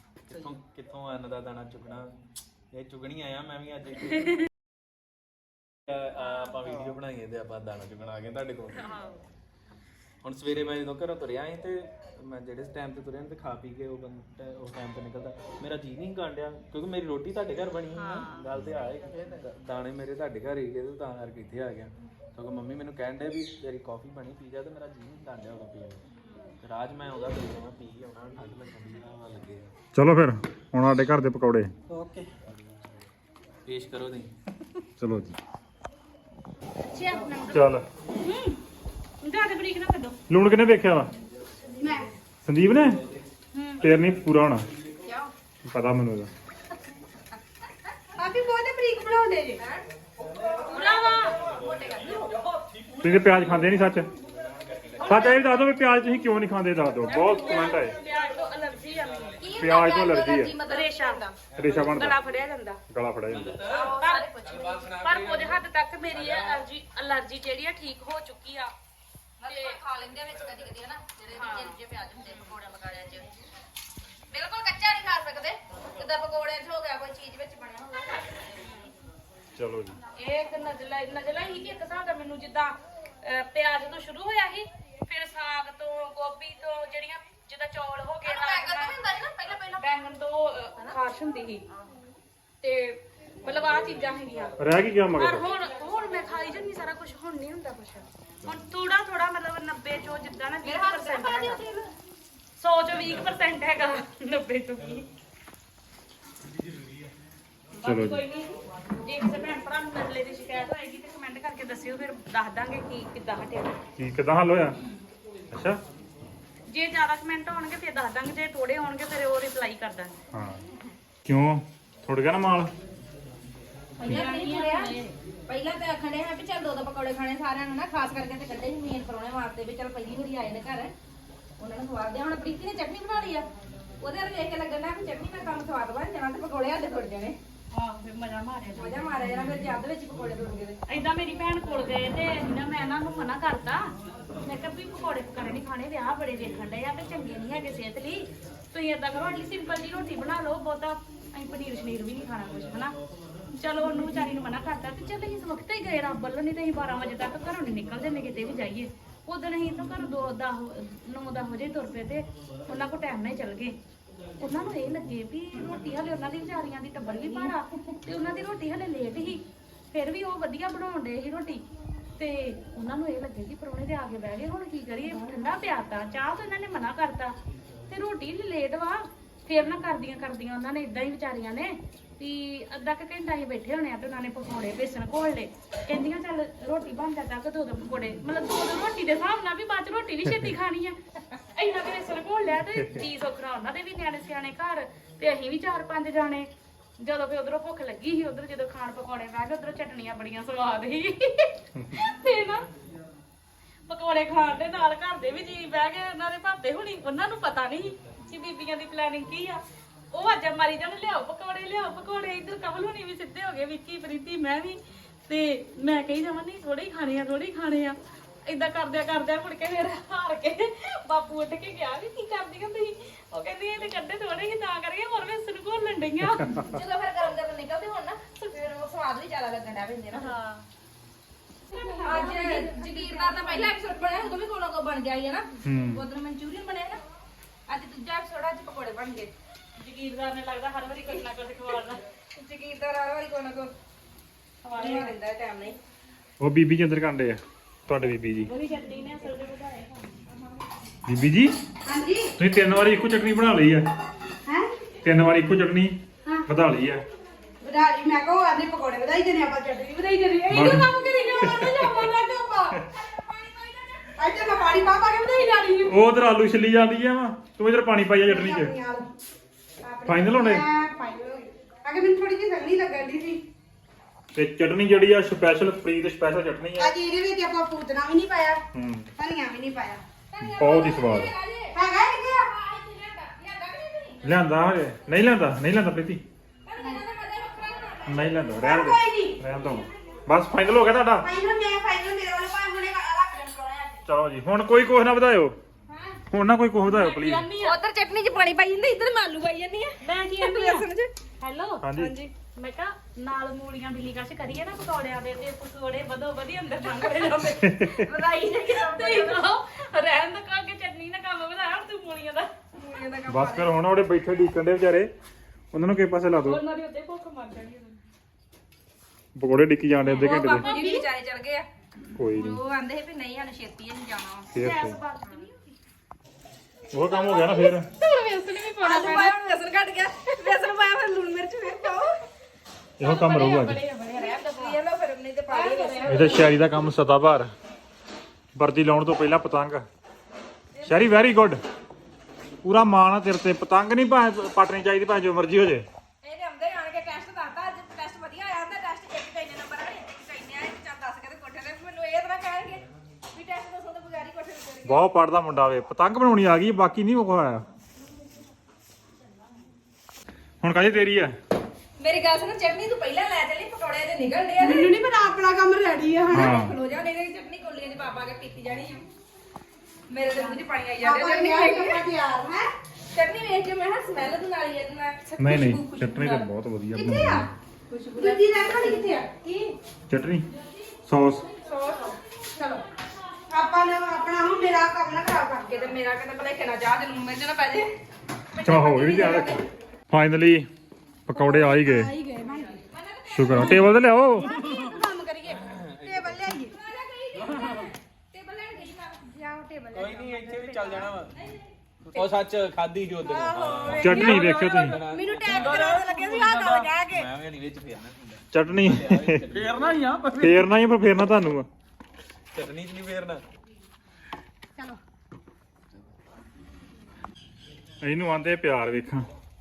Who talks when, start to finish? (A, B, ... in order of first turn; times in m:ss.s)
0:00.3-0:02.2 A
0:00.3-0:00.6 B
0:02.7-0:04.4 A
0:05.9-0:09.0 A
0:06.2-0:06.5 C
0:08.7-0:09.2 C
0:10.2-0:26.1 A
0:18.0-0:18.4 C
0:19.1-0:19.4 B
0:26.2-0:26.5 C
0:26.6-0:29.7 A
0:29.9-0:31.7 D
0:31.9-0:32.3 B
0:32.5-0:32.9 A
0:33.6-0:34.3 A
0:35.0-0:35.4 D
0:37.1-0:38.6 C
0:37.1-0:37.4 E
0:37.5-0:37.8 D
0:39.2-0:40.2 C
0:40.3-0:41.1 D
0:41.8-0:42.1 E
0:42.4-0:43.0 D
0:43.5-0:43.8 C
0:43.8-0:44.6 D
0:45.0-0:45.3 F
0:45.6-0:46.3 D
0:48.2-0:49.6 E
0:49.6-0:52.3 F
0:50.2-0:55.4 A
0:50.7-0:51.4 C
0:53.0-0:54.1 D
0:55.0-0:55.4 C
0:55.0-0:58.0 D
0:57.0-0:59.4 C
0:57.1-1:00.1 A
0:59.4-1:01.4 F
0:59.6-1:00.5 D
1:00.6-1:01.2 C
1:01.5-1:02.2 A
1:01.6-1:02.2 D
1:01.9-1:02.8 C
1:02.9-1:03.6 D
1:03.3-1:06.6 A
1:03.7-1:04.9 F
1:04.0-1:04.3 C
1:05.0-1:08.7 C
1:09.4-1:13.3 F
1:09.4-1:09.8 C
1:11.3-1:11.8 C
1:14.3-1:18.5 F
1:18.6-1:18.9 C
1:19.6-1:20.0 D
1:20.1-1:29.0 C
1:28.2-1:29.8 F
1:29.8-1:31.6 C
1:32.6-1:34.6 C
1:34.6-1:35.4 D
1:35.2-1:41.6 C
1:40.6-1:41.9 F
1:42.6-1:45.0 C
1:47.7-1:53.8 C
1:47.8-1:48.2 D
1:54.0-1:54.8 D
1:55.5-1:55.8 D
1:56.7-2:00.2 C
2:00.3-2:00.6 D
2:01.2-2:02.7 D
2:04.0-2:10.9 F
2:04.0-2:04.9 C
2:11.6-2:13.5 F
2:14.0-2:17.4 F
2:17.7-2:19.2 C
2:18.8-2:20.8 F
2:20.9-2:23.9 C
2:24.4-2:33.0 C
2:33.5-2:43.8 C
2:44.4-2:51.6 C
2:52.2-2:57.4 C
2:57.9-3:11.0 C
3:10.3-3:10.5 D
3:11.5-3:16.5 C
3:12.8-3:13.0 D
3:17.0-3:22.6 C
3:23.9-3:29.6 C
3:30.1-3:46.6 C
3:46.4-3:46.6 D
3:46.7-3:50.3 F
3:50.1-3:50.6 C
3:51.7-3:52.7 C
3:51.7-3:53.8 E
3:52.0-3:57.0 F
3:55.6-3:56.0 D
3:57.7-3:59.3 F
3:59.8-4:02.0 C
4:02.4-4:03.7 F
4:04.6-4:05.1 C
4:04.8-4:05.8 F
4:06.4-4:08.5 D
4:08.5-4:10.1 C
4:11.1-4:11.5 D
4:11.8-4:12.3 E
4:12.4-4:13.8 D
4:15.0-4:17.0 D
4:17.6-4:22.8 E
4:20.5-4:22.0 D
4:23.2-4:24.0 F
4:24.2-4:26.0 E
4:25.8-4:28.7 D
4:28.2-4:29.1 E
4:29.8-4:33.4 E
4:30.0-4:30.6 D
4:34.3-4:36.9 D
4:36.8-4:38.6 E
4:38.7-4:39.1 D
4:39.2-4:40.0 E
4:40.3-4:41.8 F
4:40.4-4:41.3 D
4:41.7-4:42.9 E
4:42.8-4:44.3 F
4:44.2-4:46.2 D
4:46.7-4:48.5 F
4:46.8-4:47.0 E
4:48.0-4:51.3 D
4:48.6-4:49.4 E
4:51.2-4:54.0 E
4:54.0-4:55.5 D
4:55.9-4:56.2 F
4:56.3-4:57.4 D
4:56.8-4:57.8 C
4:57.6-5:01.1 F
5:00.0-5:00.8 C
5:01.4-5:01.8 C
5:01.8-5:02.1 D
5:02.0-5:02.3 F
5:02.5-5:12.5 C
5:07.6-5:08.0 D
5:08.1-5:09.4 F
5:12.8-5:13.7 F
5:13.3-5:15.1 D
5:15.7-5:16.6 D
5:16.3-5:18.0 C
5:19.3-5:20.7 D
5:20.0-5:21.0 C
5:20.2-5:21.7 F
5:22.2-5:22.6 D
5:22.3-5:24.5 F
5:24.5-5:25.0 D
5:24.5-5:25.7 C
5:26.9-5:27.9 D
5:27.1-5:29.3 C
5:28.7-5:32.2 F
5:33.0-5:33.8 D
5:33.0-5:34.7 C
5:34.1-5:36.6 F
5:35.5-5:36.4 E
5:35.6-5:36.0 C
5:36.1-5:37.5 D
5:38.5-5:39.8 D
5:40.7-5:41.3 F
5:40.8-5:41.6 D
5:42.6-5:45.8 D
5:46.2-5:55.1 F
5:54.8-5:57.6 D
6:00.6-6:01.3 D
6:02.0-6:04.9 F
6:04.6-6:06.6 E
6:06.3-6:06.7 D
6:06.4-6:09.1 F
6:10.1-6:12.1 F
6:10.3-6:12.7 E
6:13.1-6:16.5 F
6:15.4-6:17.5 D
6:16.9-6:19.7 E
6:17.9-6:19.1 F
6:20.1-6:20.5 D
6:21.1-6:21.4 D
6:21.6-6:22.2 F
6:22.5-6:22.8 E
6:23.5-6:25.7 E
6:25.6-6:27.9 F
6:28.6-6:29.6 E
6:28.6-6:30.7 D
6:29.2-6:29.5 F
6:31.3-6:32.1 D
6:31.3-6:32.8 E
6:32.9-6:33.8 F
6:33.3-6:34.5 D
6:33.5-6:36.8 E
6:34.4-6:36.6 A
6:36.7-6:39.2 F
6:37.3-6:37.9 A
6:39.2-6:41.1 E
6:39.9-6:41.3 A
6:41.3-6:41.7 F
6:42.0-6:50.0 A
6:43.2-6:47.3 E
6:43.6-6:43.9 F
6:44.0-6:45.0 D
6:48.5-6:49.4 D
6:49.5-6:50.6 B
6:50.4-6:51.7 D
6:52.5-6:53.4 A
6:58.0-6:59.3 D